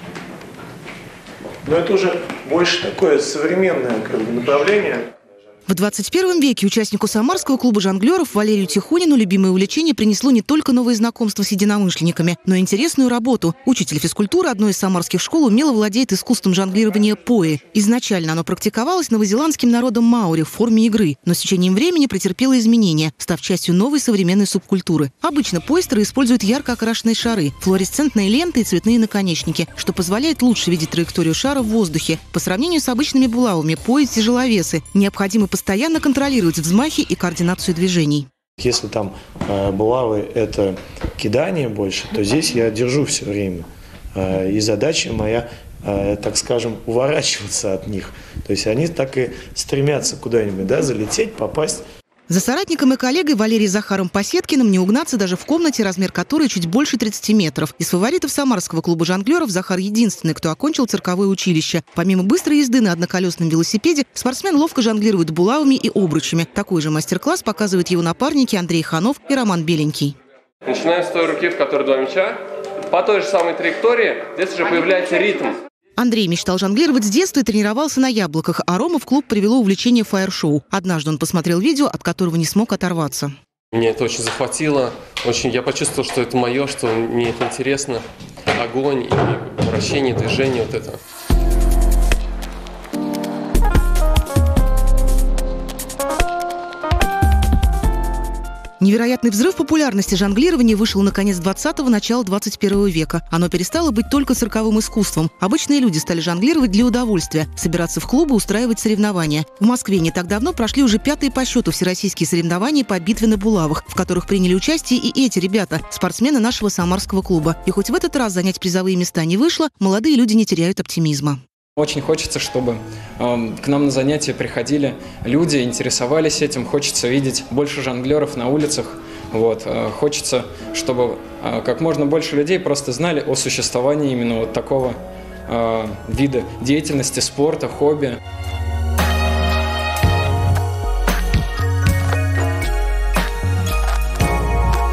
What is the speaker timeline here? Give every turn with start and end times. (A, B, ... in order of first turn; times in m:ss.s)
0:01.6-0:05.1 A
0:05.7-0:38.3 B
0:38.6-0:51.8 A
0:52.3-1:10.2 B
1:10.6-1:15.6 C
1:16.0-1:23.3 B
1:23.7-1:31.0 C
1:38.8-2:01.4 B
2:01.8-2:18.2 D